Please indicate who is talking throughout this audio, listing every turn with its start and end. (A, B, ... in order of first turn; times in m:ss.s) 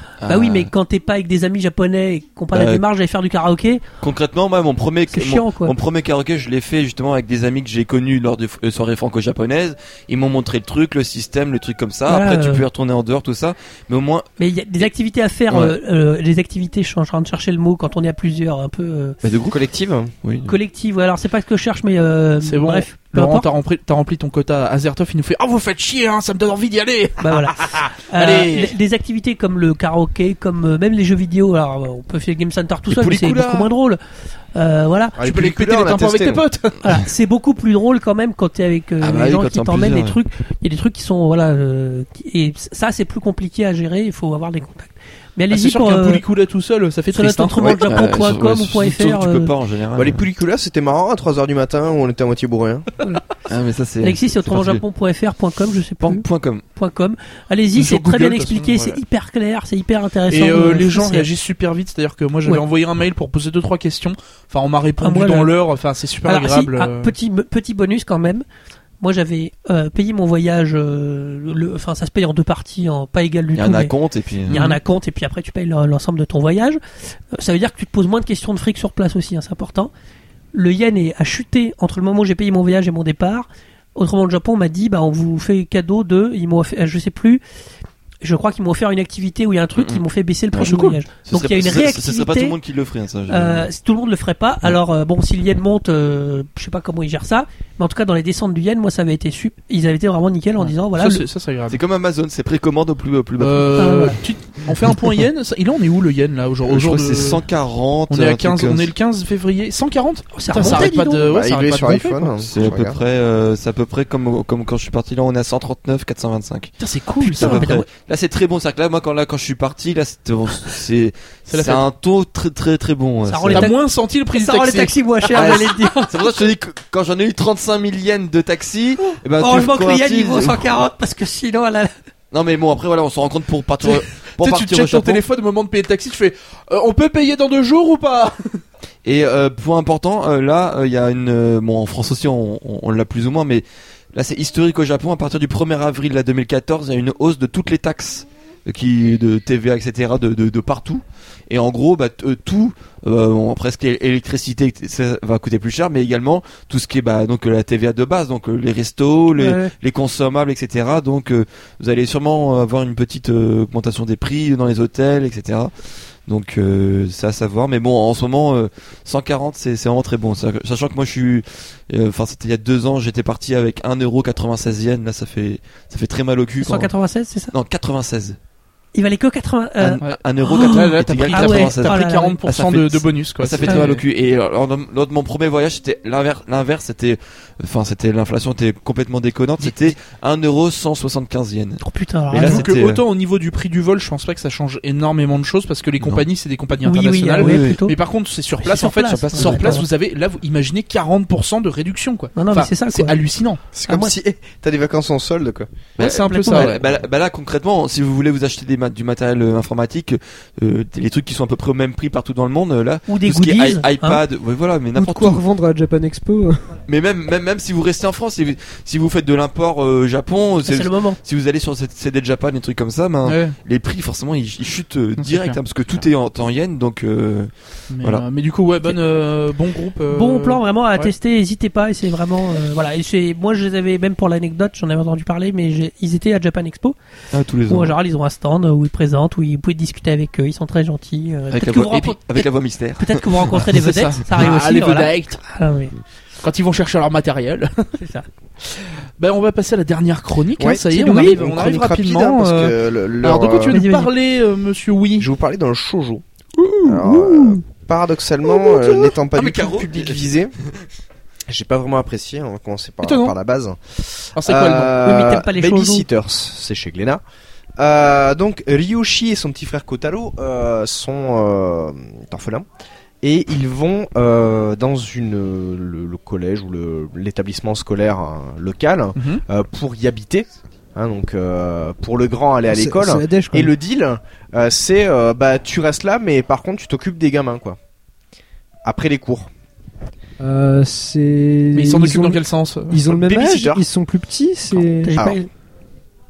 0:00.2-0:00.7 A
0:00.3-0:03.8 B
0:02.5-0:02.8 A
0:04.0-0:14.3 A
0:05.1-0:05.8 B
0:12.1-0:12.6 B
0:14.4-0:19.2 B
0:15.5-0:15.8 A
0:19.2-0:19.6 A
0:19.4-0:20.1 C
0:20.2-0:20.5 A
0:20.4-0:23.5 B
0:22.4-0:28.8 D
0:27.2-0:34.0 B
0:32.9-0:33.7 A
0:34.6-0:35.2 B
0:35.2-0:36.4 C
0:35.2-0:36.8 D
0:36.8-0:46.2 B
0:39.0-0:40.2 A
0:45.5-0:47.8 D
0:47.1-0:49.5 B
0:47.6-0:50.2 A
0:50.0-0:52.9 C
0:53.5-0:54.8 A
0:54.0-1:01.3 B
0:56.0-0:56.6 A
0:57.8-0:58.9 D
1:00.3-1:07.1 D
1:05.0-1:05.5 B
1:06.3-1:08.4 B
1:09.0-1:13.9 B
1:13.6-1:14.6 A
1:14.5-1:16.8 B
1:14.5-1:14.8 D
1:17.3-1:19.9 B
1:20.5-1:27.4 B
1:28.2-1:32.6 B
1:29.8-1:33.7 A
1:33.3-1:41.2 B
1:40.6-1:41.8 D
1:41.7-1:43.8 A
1:43.4-1:47.4 D
1:43.8-1:44.2 B
1:46.7-1:48.9 A
1:48.1-1:52.3 D
1:50.4-1:51.3 B
1:50.6-1:53.0 C
1:52.4-1:56.8 A
1:56.8-1:57.7 D
1:57.2-1:57.9 B
1:57.3-2:03.7 A
2:01.5-2:01.8 D
2:03.3-2:03.8 B
2:03.5-2:05.6 D
2:04.3-2:06.2 B
2:05.3-2:10.7 A
2:09.0-2:11.9 B
2:12.3-2:15.2 A
2:13.8-2:18.6 D
2:19.0-2:45.7 A
2:39.4-2:39.7 B
2:46.3-2:56.9 A
2:56.6-2:57.5 B
2:57.5-2:58.4 A
2:59.0-3:02.4 B
2:59.8-3:13.0 A
3:00.0-3:04.0 D
3:03.6-3:03.9 B
3:11.8-3:12.7 B
3:12.3-3:23.6 D
3:16.8-3:18.0 B
3:17.4-3:17.8 A
3:18.6-3:19.8 B
3:19.1-3:19.8 A
3:22.4-3:23.2 B
3:23.7-3:25.7 C
3:23.9-3:24.1 B
3:26.0-3:26.8 D
3:26.0-3:35.4 A
3:26.3-3:26.7 B
3:33.1-3:34.2 B
3:35.0-3:36.8 E
3:36.9-3:48.2 A
3:40.7-3:41.2 B
3:43.2-3:43.6 D
3:45.2-3:45.6 D
3:47.9-3:51.1 D
3:50.1-3:57.0 B
3:57.3-3:58.0 A
3:57.7-4:06.0 B
4:01.5-4:03.6 A
4:03.7-4:05.4 D
4:06.4-4:08.0 D
4:08.0-4:08.3 B
4:08.6-4:15.3 D
4:10.6-4:13.8 C
4:10.9-4:11.3 B
4:13.7-4:14.1 B
4:15.2-4:16.2 C
4:16.6-4:17.6 B
4:16.8-4:20.5 C
4:19.3-4:20.8 A
4:21.5-4:27.2 C
4:23.0-4:23.3 D
4:24.4-4:25.0 D
4:25.0-4:26.1 B
4:27.8-4:32.7 C
4:33.2-4:47.8 C
4:39.2-4:39.4 D
4:42.7-4:43.7 E
4:48.8-4:49.5 C
4:50.4-4:52.4 E
4:51.7-4:53.0 D
4:52.9-4:55.4 E
4:53.1-4:53.8 C
4:55.0-4:55.5 B